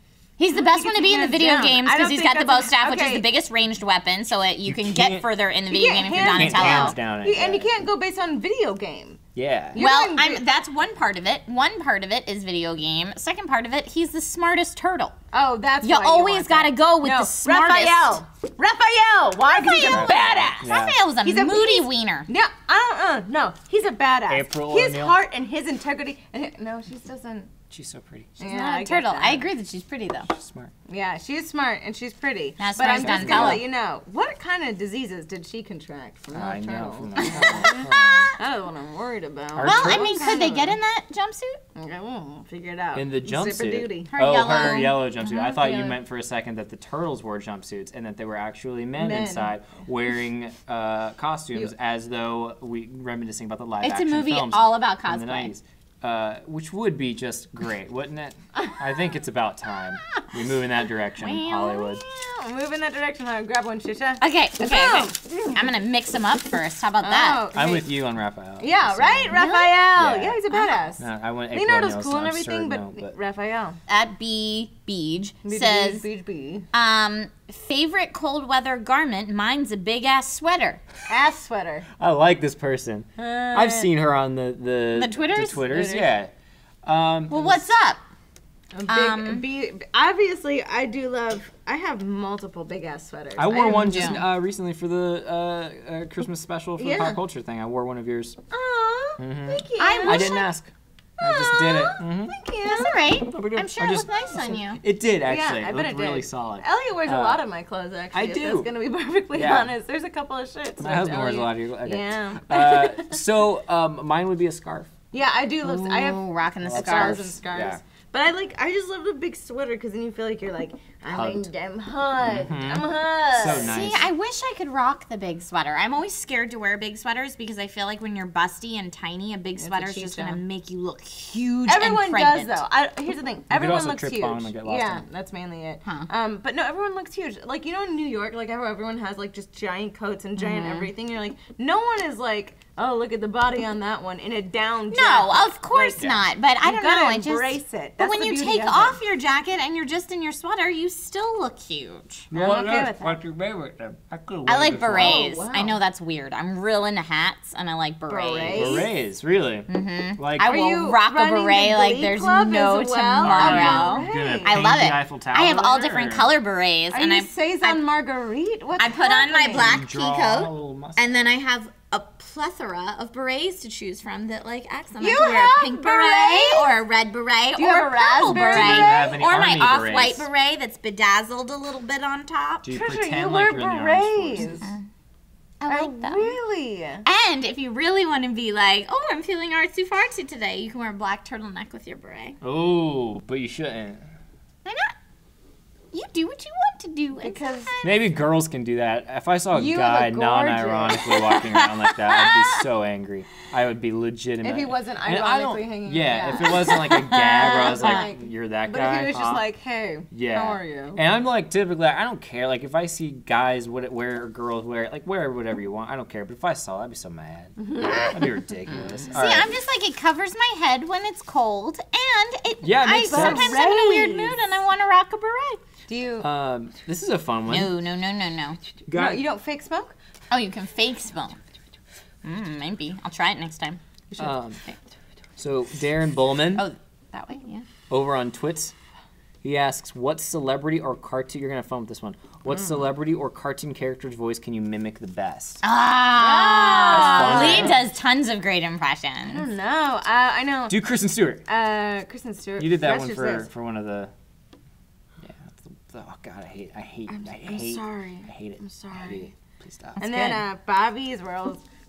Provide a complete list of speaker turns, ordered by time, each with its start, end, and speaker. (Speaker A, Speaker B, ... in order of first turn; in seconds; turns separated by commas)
Speaker A: 0.4-7.0, Speaker B: 0.5-3.2, Speaker C: 4.7-5.3, Speaker B: 5.7-9.2, Speaker C: 6.2-7.8, Speaker C: 9.3-9.8, Speaker B: 9.7-10.4, Speaker A: 9.8-15.2, Speaker B: 15.3-20.6, Speaker A: 15.8-18.2, Speaker A: 19.5-22.3, Speaker C: 19.9-21.0, Speaker B: 21.2-27.5, Speaker C: 24.3-25.2, Speaker C: 27.7-28.4, Speaker B: 28.4-29.5, Speaker A: 28.4-30.3, Speaker C: 30.3-30.7, Speaker B: 30.9-40.8, Speaker A: 32.6-33.6, Speaker C: 32.9-33.6, Speaker C: 36.3-38.3, Speaker A: 37.2-38.3, Speaker C: 39.5-40.4, Speaker A: 39.6-41.6, Speaker B: 41.7-44.5, Speaker C: 42.9-62.0, Speaker A: 44.1-45.7, Speaker B: 45.7-45.9, Speaker B: 49.0-49.5, Speaker A: 53.8-55.5, Speaker A: 61.2-62.0, Speaker B: 62.0-65.7, Speaker A: 64.2-67.5, Speaker B: 67.0-68.0, Speaker C: 67.5-70.4, Speaker B: 68.6-73.8, Speaker A: 69.3-69.8, Speaker A: 70.5-70.8, Speaker C: 71.0-73.2, Speaker A: 73.9-76.0, Speaker B: 75.4-76.7, Speaker A: 76.7-80.8, Speaker B: 81.1-81.8, Speaker C: 82.0-86.3, Speaker B: 83.2-83.9, Speaker A: 84.9-86.0, Speaker C: 86.8-87.6, Speaker A: 87.3-88.0, Speaker B: 88.7-94.1, Speaker A: 88.9-89.4, Speaker C: 93.4-98.4, Speaker A: 93.7-94.2, Speaker B: 96.8-97.2, Speaker B: 98.5-100.4, Speaker C: 99.2-102.3, Speaker A: 99.8-100.5, Speaker B: 101.2-103.0, Speaker A: 102.7-104.8, Speaker C: 103.3-107.4, Speaker B: 105.2-113.2, Speaker C: 108.1-108.7, Speaker C: 109.3-109.7, Speaker C: 110.8-114.9, Speaker B: 115.1-123.7, Speaker A: 115.6-117.2, Speaker C: 116.6-117.8, Speaker C: 121.1-121.5, Speaker C: 122.2-124.1, Speaker A: 123.5-132.6, Speaker B: 129.6-130.4, Speaker B: 131.7-146.1, Speaker C: 133.5-135.0, Speaker A: 140.4-140.9, Speaker A: 144.9-152.3, Speaker C: 146.0-146.3, Speaker B: 146.6-149.0, Speaker C: 152.3-155.3, Speaker B: 152.3-153.2, Speaker A: 154.5-158.8, Speaker B: 155.0-155.8, Speaker B: 158.1-158.9, Speaker C: 158.5-160.5, Speaker A: 159.7-167.8, Speaker B: 160.4-164.6, Speaker C: 163.2-166.3, Speaker B: 166.9-169.8, Speaker A: 168.8-182.7, Speaker C: 169.5-171.1, Speaker B: 175.0-176.7, Speaker B: 177.6-179.1, Speaker C: 178.4-180.3, Speaker C: 182.6-184.5, Speaker B: 182.7-184.7, Speaker A: 184.4-184.8, Speaker A: 185.6-186.4, Speaker B: 185.7-187.0, Speaker A: 187.0-192.3, Speaker C: 192.4-194.0, Speaker A: 194.7-194.9, Speaker A: 195.9-198.0, Speaker B: 197.2-197.7, Speaker C: 197.8-209.4, Speaker B: 199.5-201.2, Speaker A: 201.0-202.6, Speaker B: 204.4-211.0, Speaker A: 206.5-208.1, Speaker C: 210.1-219.5, Speaker B: 217.6-219.1, Speaker A: 219.1-225.6, Speaker C: 222.6-223.5, Speaker B: 223.0-224.6, Speaker B: 225.9-226.3, Speaker C: 226.2-227.8, Speaker A: 227.5-228.6, Speaker C: 228.8-229.2, Speaker B: 228.9-229.9, Speaker A: 230.3-231.4, Speaker A: 232.2-233.8, Speaker C: 234.2-234.6, Speaker C: 235.4-236.7, Speaker A: 236.5-237.7, Speaker C: 237.9-238.7, Speaker C: 239.4-245.6, Speaker A: 245.6-249.5, Speaker B: 246.2-247.8, Speaker C: 246.9-247.8, Speaker B: 249.3-250.8, Speaker C: 250.7-251.4, Speaker B: 251.4-253.5, Speaker C: 252.6-254.1, Speaker C: 255.2-260.0, Speaker B: 257.1-259.2, Speaker A: 260.0-260.4, Speaker B: 260.0-261.6